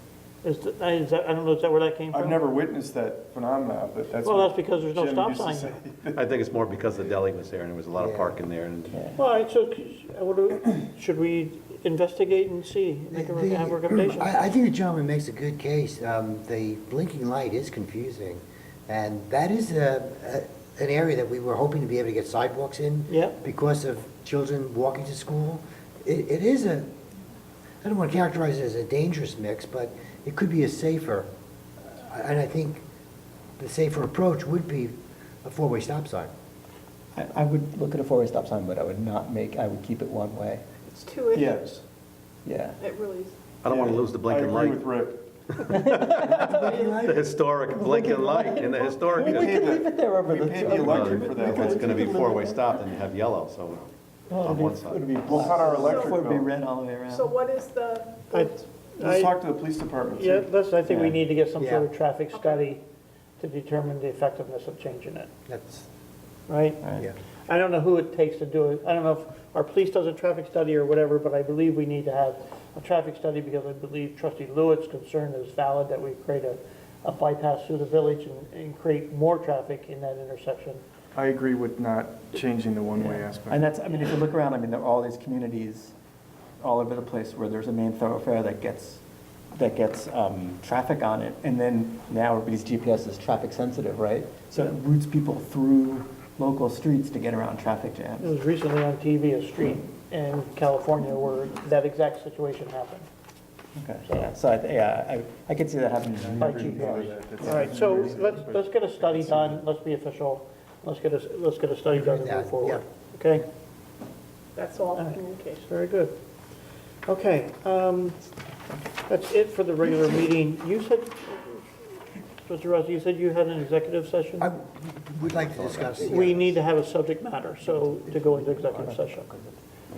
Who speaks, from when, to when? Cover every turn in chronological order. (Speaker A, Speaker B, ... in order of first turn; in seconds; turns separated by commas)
Speaker A: 0.4-2.5, Speaker B: 2.1-6.2, Speaker A: 4.2-5.8, Speaker C: 6.2-9.0, Speaker D: 8.0-8.3, Speaker E: 8.9-9.2, Speaker A: 9.2-14.4, Speaker D: 13.1-26.9, Speaker A: 23.1-23.4, Speaker D: 27.8-31.3, Speaker D: 31.8-32.8, Speaker D: 33.6-36.3, Speaker E: 37.1-40.6, Speaker F: 40.9-41.7, Speaker B: 41.3-41.8, Speaker E: 42.5-42.8, Speaker F: 42.8-43.4, Speaker C: 43.6-45.0, Speaker B: 43.7-45.2, Speaker C: 45.6-49.6, Speaker E: 45.7-52.7, Speaker B: 49.1-52.2, Speaker C: 50.6-55.1, Speaker E: 54.3-57.3, Speaker B: 55.2-56.5, Speaker F: 55.8-56.3, Speaker F: 57.0-58.6, Speaker A: 58.3-59.4, Speaker B: 59.0-60.5, Speaker A: 60.1-62.8, Speaker E: 60.9-61.1, Speaker D: 61.6-61.9, Speaker F: 62.3-62.6, Speaker A: 63.4-65.3, Speaker D: 65.5-65.9, Speaker A: 66.5-66.8, Speaker E: 66.8-67.1, Speaker A: 67.5-80.8, Speaker B: 81.2-83.6, Speaker E: 83.0-85.9, Speaker E: 86.6-89.0, Speaker E: 89.5-98.3, Speaker A: 98.2-103.1, Speaker E: 103.8-108.0, Speaker A: 104.1-104.3, Speaker B: 106.1-109.6, Speaker A: 106.4-113.5, Speaker D: 111.9-112.8, Speaker F: 114.6-115.6, Speaker A: 115.0-116.1, Speaker A: 117.1-118.2, Speaker A: 119.1-121.7, Speaker A: 122.4-124.5, Speaker D: 124.4-126.5, Speaker E: 125.6-126.2, Speaker A: 126.0-129.3, Speaker E: 128.3-129.6